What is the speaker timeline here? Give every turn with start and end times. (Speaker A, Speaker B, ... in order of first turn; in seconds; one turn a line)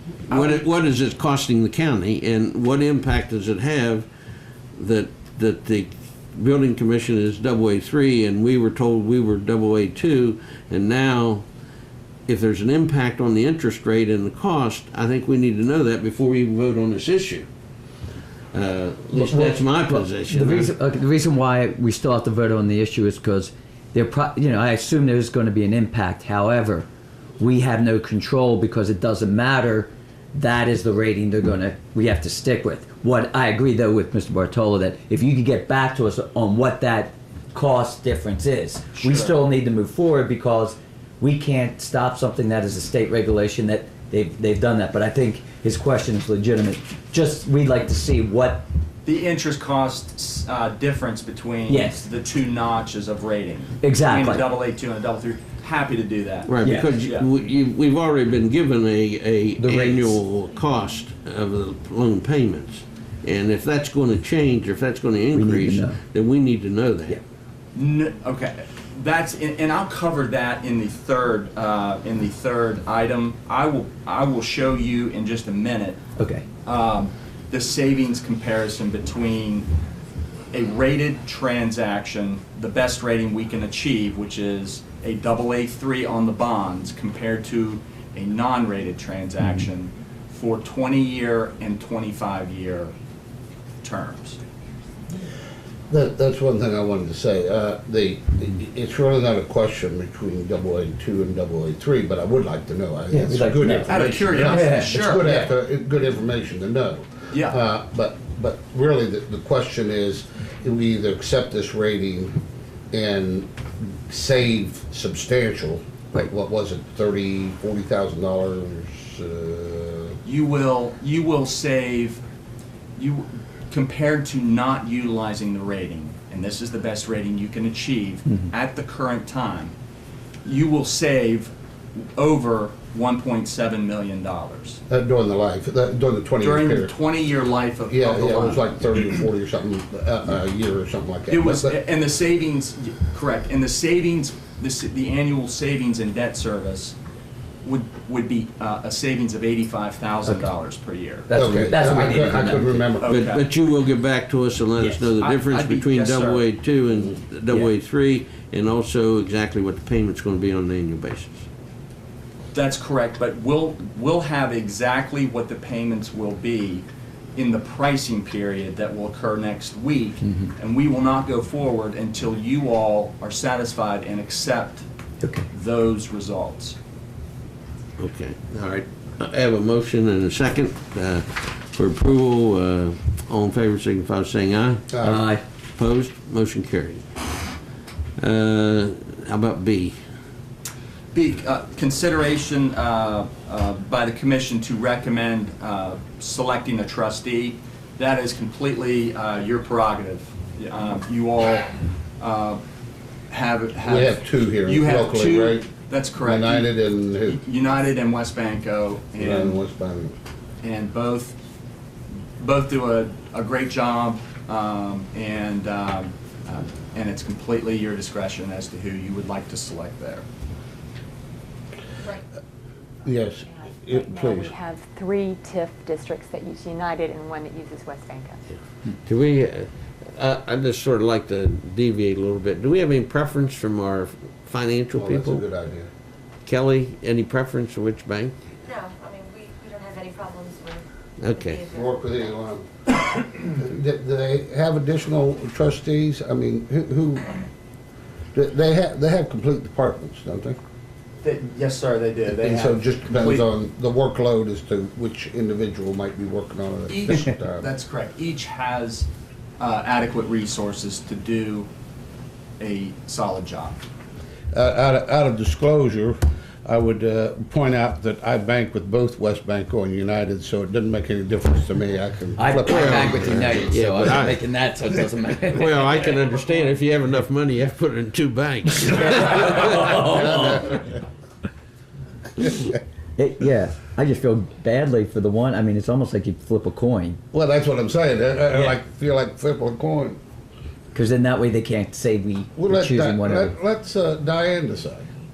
Speaker A: 0.3-4.1
Speaker B: 0.3-0.6
Speaker A: 4.8-11.5
Speaker A: 12.3-17.5
Speaker A: 18.5-20.7
Speaker C: 19.1-26.9
Speaker C: 27.4-48.7
Speaker B: 39.0-39.4
Speaker B: 49.1-57.3
Speaker C: 51.7-52.0
Speaker C: 53.8-54.5
Speaker A: 56.5-67.2
Speaker C: 56.6-57.0
Speaker C: 59.6-60.2
Speaker C: 65.3-66.0
Speaker B: 67.8-76.0
Speaker C: 76.2-76.5
Speaker B: 76.7-79.7
Speaker B: 80.5-92.9
Speaker B: 93.8-94.4
Speaker D: 95.9-112.4
Speaker C: 103.1-103.9
Speaker B: 103.9-105.5
Speaker C: 104.4-105.4
Speaker B: 107.3-107.6
Speaker D: 112.9-113.5
Speaker D: 114.1-120.2
Speaker B: 120.2-122.2
Speaker B: 123.0-129.7
Speaker B: 130.4-134.8
Speaker D: 134.9-136.9
Speaker B: 136.4-138.7
Speaker D: 137.9-141.8
Speaker B: 141.3-147.0
Speaker B: 147.6-151.3
Speaker C: 151.3-152.8
Speaker D: 151.3-153.2
Speaker B: 153.0-153.4
Speaker A: 153.1-161.4
Speaker B: 155.2-156.5
Speaker B: 162.5-174.8
Speaker C: 170.2-170.5
Speaker C: 175.2-175.5
Speaker B: 175.5-176.8
Speaker A: 178.0-184.9
Speaker D: 184.9-185.2
Speaker C: 185.0-185.4
Speaker A: 185.8-187.1
Speaker A: 188.2-190.0
Speaker B: 191.1-202.6
Speaker B: 203.3-209.6
Speaker D: 203.8-205.7
Speaker D: 206.2-207.4
Speaker D: 209.2-210.1
Speaker B: 210.6-211.4
Speaker B: 212.4-220.2
Speaker D: 223.1-224.6
Speaker E: 223.9-228.5
Speaker A: 229.0-235.4
Speaker D: 235.0-235.9
Speaker A: 236.5-238.3
Speaker F: 238.7-241.9
Speaker A: 241.2-241.7
Speaker D: 241.7-247.4
Speaker D: 248.3-250.6
Speaker B: 251.2-253.5
Speaker D: 252.3-257.7
Speaker B: 256.9-259.1
Speaker B: 259.6-261.7
Speaker B: 262.6-263.8
Speaker D: 264.5-273.8
Speaker C: 272.4-276.1
Speaker A: 272.6-274.4
Speaker A: 275.5-280.2
Speaker C: 278.9-280.7
Speaker D: 280.1-280.9
Speaker C: 283.2-287.2
Speaker D: 287.3-290.2
Speaker C: 290.9-293.5
Speaker D: 292.6-295.1